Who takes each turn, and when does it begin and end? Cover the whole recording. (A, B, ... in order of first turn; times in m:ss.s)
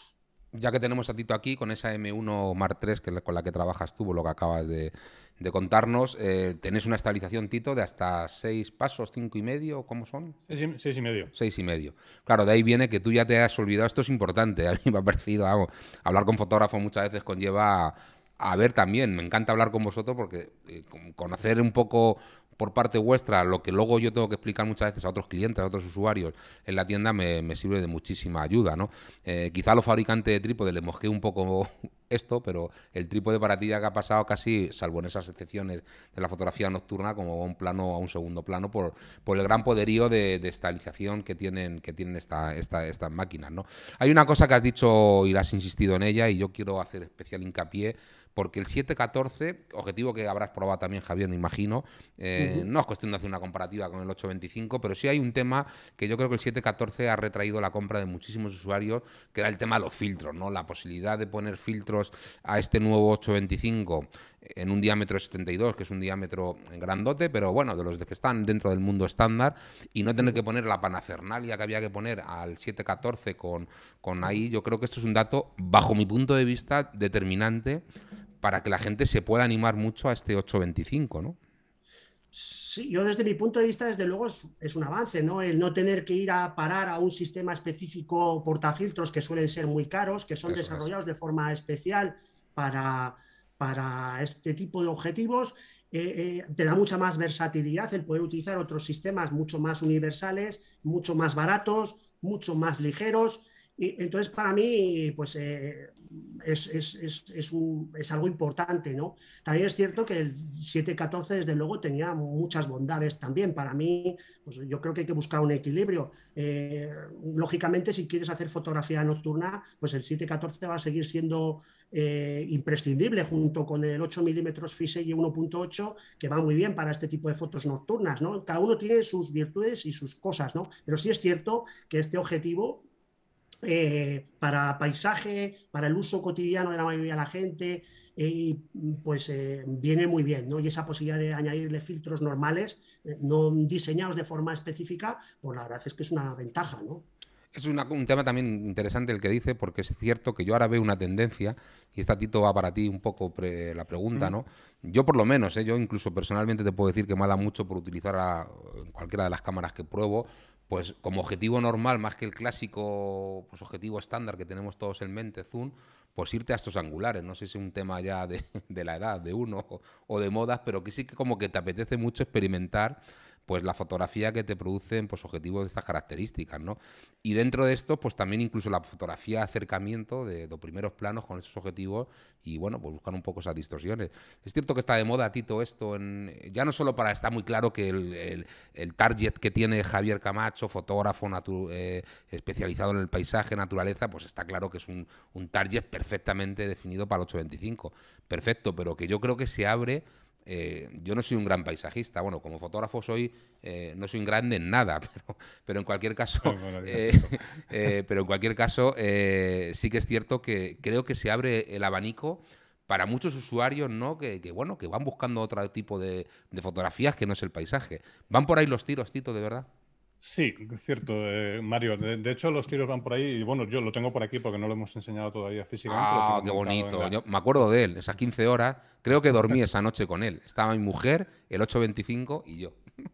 0:00.5-0:10.4 A
0:10.5-0:11.3 B
0:11.3-1:17.8 A
0:52.4-0:52.7 C
1:18.4-1:21.4 A
1:22.3-2:12.8 C
1:30.5-1:30.8 A
2:13.6-2:27.0 C
2:27.5-3:39.7 A
3:26.4-3:27.6 B
3:40.2-3:47.1 B
3:45.9-3:52.8 A